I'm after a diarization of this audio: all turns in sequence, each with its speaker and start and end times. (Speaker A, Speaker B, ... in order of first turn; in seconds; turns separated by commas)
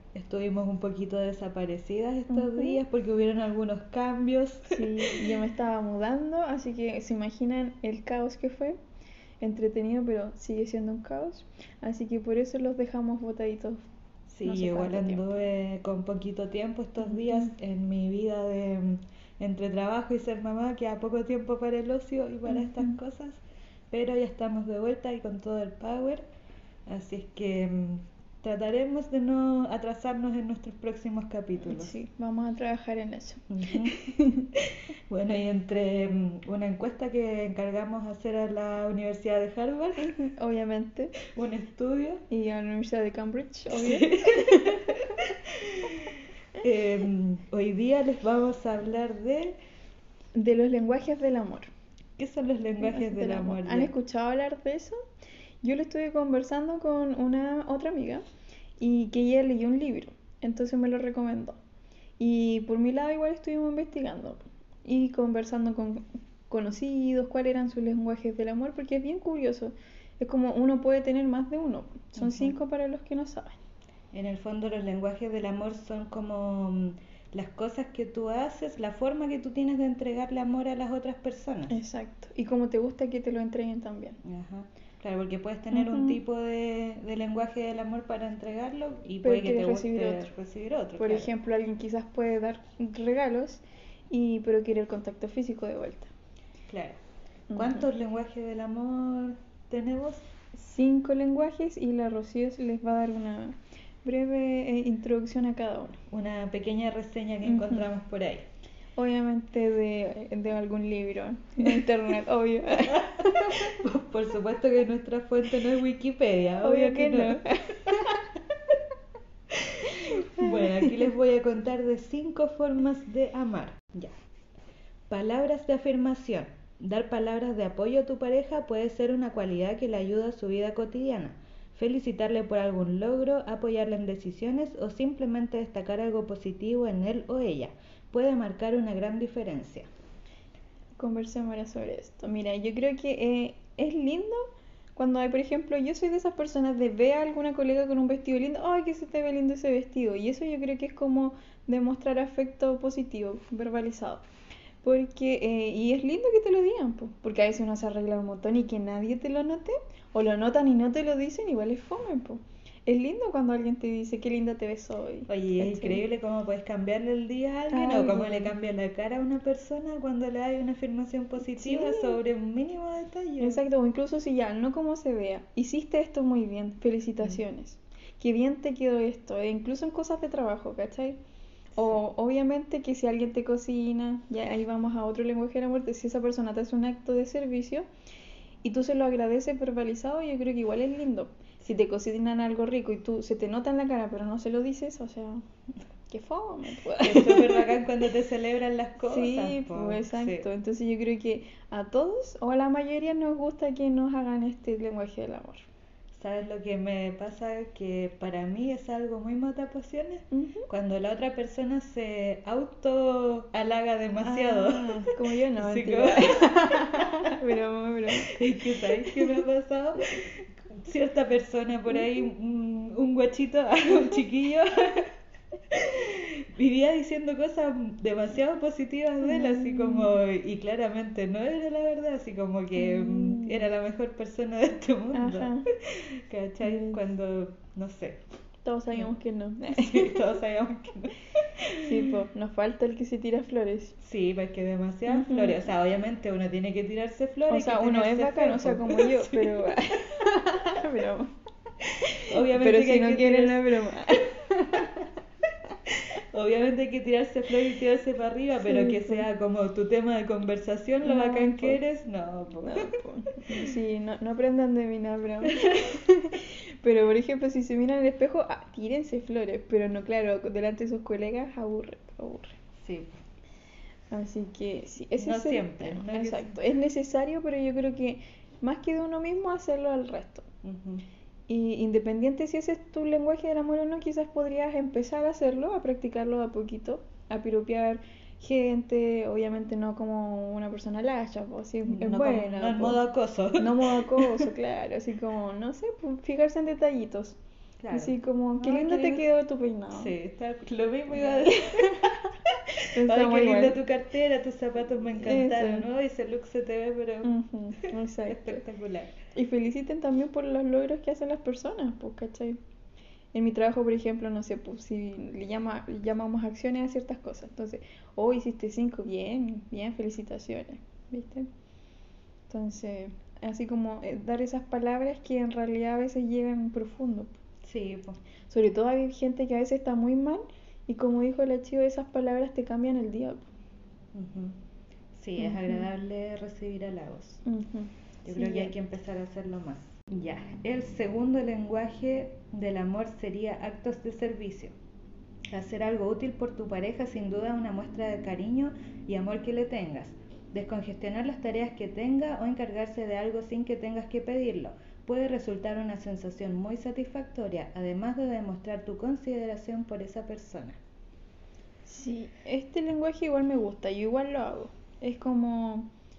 Speaker A: 0.1-5.3, Speaker B: 2.3-2.8, Speaker B: 4.7-8.8, Speaker B: 9.4-13.8, Speaker A: 14.3-26.2, Speaker B: 14.4-15.4, Speaker B: 17.1-17.4, Speaker A: 26.9-32.0, Speaker B: 31.6-34.5, Speaker A: 33.5-33.9, Speaker A: 34.5-40.1, Speaker B: 40.0-41.2, Speaker A: 41.2-42.2, Speaker B: 42.3-44.9, Speaker A: 43.7-49.5, Speaker B: 50.3-51.7, Speaker A: 52.2-53.9, Speaker B: 52.8-55.0, Speaker B: 55.6-58.2, Speaker B: 58.8-61.6, Speaker B: 62.2-73.6, Speaker A: 72.2-72.5, Speaker A: 74.1-81.7, Speaker B: 81.7-84.2, Speaker A: 84.2-91.3, Speaker B: 85.7-86.2, Speaker B: 89.2-90.3, Speaker B: 91.0-96.1, Speaker A: 96.7-97.0, Speaker B: 97.5-97.8, Speaker A: 97.5-100.2, Speaker B: 100.5-106.0, Speaker A: 106.1-108.5, Speaker B: 107.4-107.8, Speaker B: 109.0-113.8, Speaker A: 112.9-118.1, Speaker B: 116.6-118.2, Speaker A: 119.5-124.1, Speaker B: 119.8-120.9, Speaker A: 125.1-139.9, Speaker B: 141.0-154.2, Speaker B: 154.8-166.0, Speaker A: 165.3-173.6, Speaker B: 167.7-168.5, Speaker B: 171.4-172.2, Speaker B: 173.4-181.2, Speaker A: 181.7-182.0, Speaker B: 181.8-187.9, Speaker B: 188.6-195.4, Speaker B: 196.1-197.8, Speaker A: 197.0-200.5, Speaker B: 199.0-205.7, Speaker A: 206.1-217.4, Speaker B: 210.3-210.7, Speaker B: 214.2-219.4, Speaker A: 218.1-225.1, Speaker A: 225.7-238.2, Speaker B: 229.2-230.1, Speaker B: 232.8-233.6, Speaker B: 235.1-235.7, Speaker B: 236.6-237.0, Speaker B: 238.6-240.3, Speaker A: 239.7-242.1, Speaker B: 241.8-244.0, Speaker A: 244.0-249.8, Speaker B: 245.1-245.6, Speaker B: 247.5-251.3, Speaker B: 252.0-255.1, Speaker A: 252.1-253.6, Speaker A: 255.9-262.9, Speaker B: 258.6-259.2, Speaker B: 261.0-261.8, Speaker B: 262.6-272.6, Speaker A: 265.5-265.9, Speaker A: 272.8-273.1, Speaker B: 274.1-280.5, Speaker A: 275.2-276.6, Speaker A: 280.6-281.0, Speaker B: 281.5-293.0, Speaker A: 291.9-294.5, Speaker B: 293.6-297.4, Speaker A: 297.8-299.2, Speaker B: 297.9-300.1, Speaker A: 299.9-302.3, Speaker B: 301.2-302.2, Speaker B: 302.9-303.8, Speaker A: 303.0-307.3, Speaker B: 305.2-305.9, Speaker B: 307.2-308.6, Speaker A: 308.2-309.1, Speaker B: 309.3-312.6, Speaker B: 313.3-321.5, Speaker B: 322.5-327.4, Speaker A: 327.6-328.2, Speaker B: 328.5-333.5, Speaker A: 334.1-334.6, Speaker A: 335.1-337.4, Speaker B: 335.4-335.8, Speaker B: 337.4-338.7, Speaker A: 338.2-344.7, Speaker A: 345.5-360.8, Speaker B: 361.9-365.9